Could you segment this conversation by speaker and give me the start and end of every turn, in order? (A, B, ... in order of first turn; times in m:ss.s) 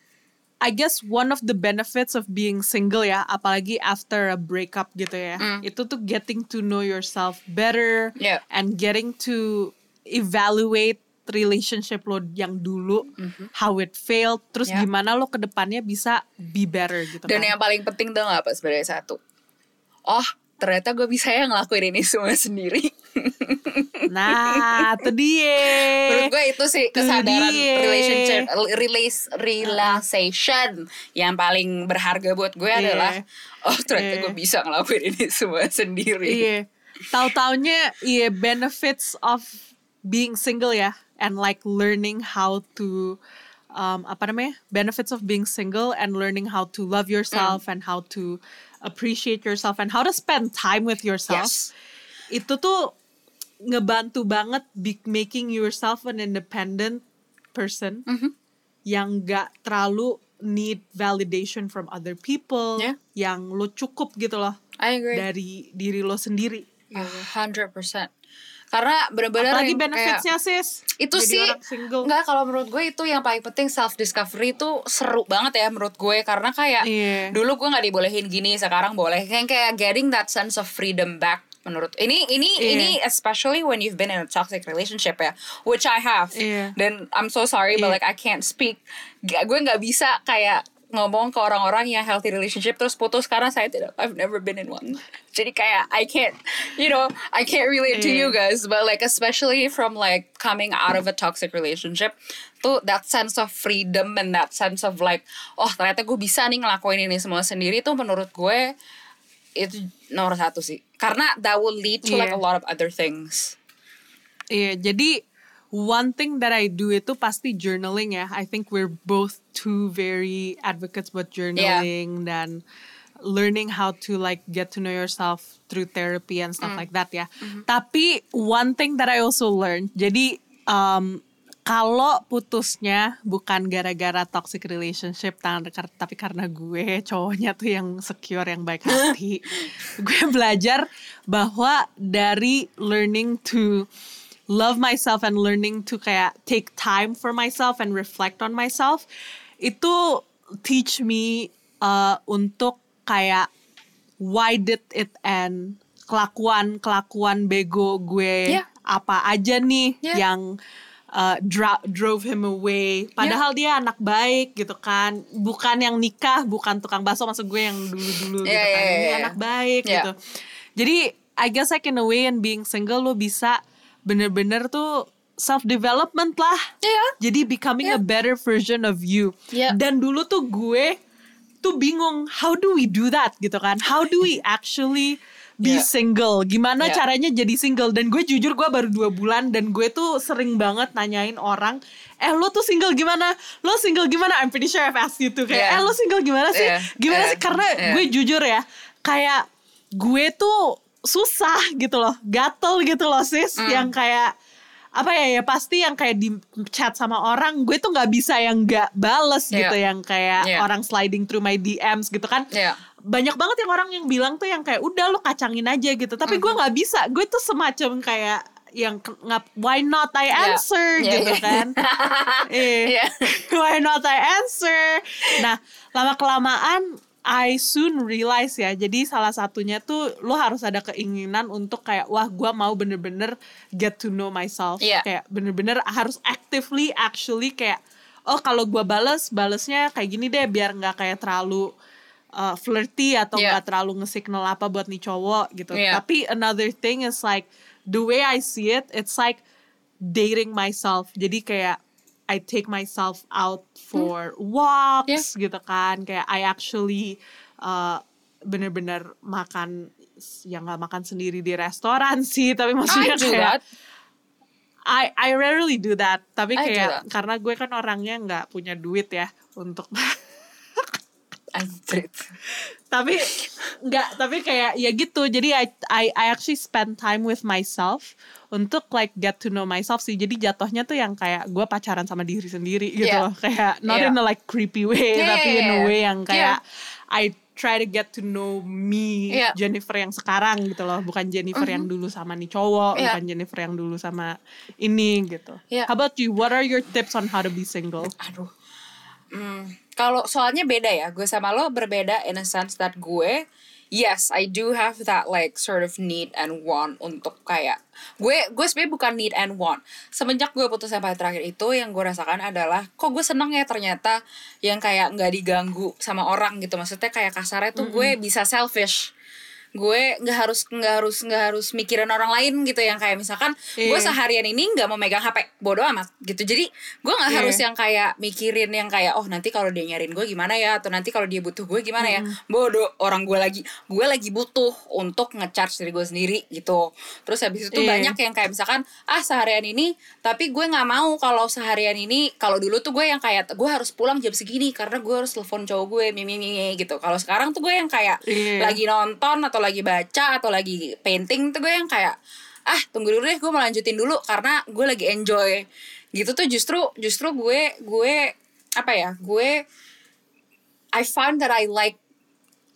0:00.6-0:17.5 A
0:13.2-0:13.5 B
0:17.2-0:19.2 B
0:20.1-0:24.9 B
0:24.1-0:26.3 A
0:25.7-0:36.4 B
0:26.9-0:28.5 A
0:29.6-0:30.0 A
0:32.7-0:33.2 A
0:33.9-0:34.3 A
0:36.2-0:39.5 A
0:40.1-0:43.2 A
0:43.8-0:51.6 A
0:47.3-0:47.6 B
0:51.3-0:51.7 B
0:52.3-0:52.9 A
0:53.7-0:57.0 A
0:57.5-0:58.0 A
0:58.1-0:58.3 B
0:58.9-1:04.6 A
1:04.8-1:05.2 B
1:05.1-1:07.3 A
1:06.9-1:08.1 B
1:08.7-1:10.2 B
1:09.4-1:12.1 A
1:11.0-1:48.6 B
1:16.8-1:17.3 A
1:22.6-1:22.9 A
1:26.4-1:26.7 A
1:37.9-1:38.3 A
1:49.6-1:53.6 B
1:52.0-1:52.4 A
1:54.5-1:55.1 A
1:55.7-2:02.6 A
2:01.6-2:01.8 B
2:03.2-2:23.8 A
2:24.5-2:29.0 A
2:29.6-2:33.5 A
2:34.2-2:40.5 A
2:41.1-2:50.1 A
2:48.1-2:49.3 B
2:50.8-2:56.7 A
2:56.8-2:57.1 B
2:57.2-3:01.0 A
3:01.6-3:19.4 A
3:15.5-3:15.9 B
3:16.5-3:18.0 B
3:20.0-3:24.3 A
3:23.6-3:23.9 B
3:25.0-3:32.4 A
3:32.5-3:32.8 B
3:33.1-3:41.7 A
3:36.2-3:36.5 B
3:40.3-3:43.1 B
3:42.5-4:01.7 A
4:02.4-4:09.4 A
4:05.7-4:06.0 B
4:10.1-4:11.8 A
4:12.3-4:19.9 A
4:20.5-4:23.6 A
4:22.9-4:23.6 B
4:24.9-4:30.2 A
4:26.6-4:27.0 B
4:31.5-4:32.3 B
4:32.9-4:33.3 A
4:33.8-4:46.6 A
4:43.9-4:44.1 B
4:45.1-4:46.6 B
4:47.1-4:58.1 A
4:51.5-4:51.9 B
4:58.2-4:58.5 B
4:59.3-5:03.4 B
5:04.0-5:19.1 B
5:17.8-5:18.1 A
5:19.8-5:52.2 B
5:23.8-5:24.1 A
5:27.3-5:27.6 A
5:32.0-5:32.3 A
5:37.7-5:38.1 A
5:48.3-5:48.8 A
5:52.7-5:55.6 B
5:56.1-5:59.5 B
6:01.0-6:02.0 B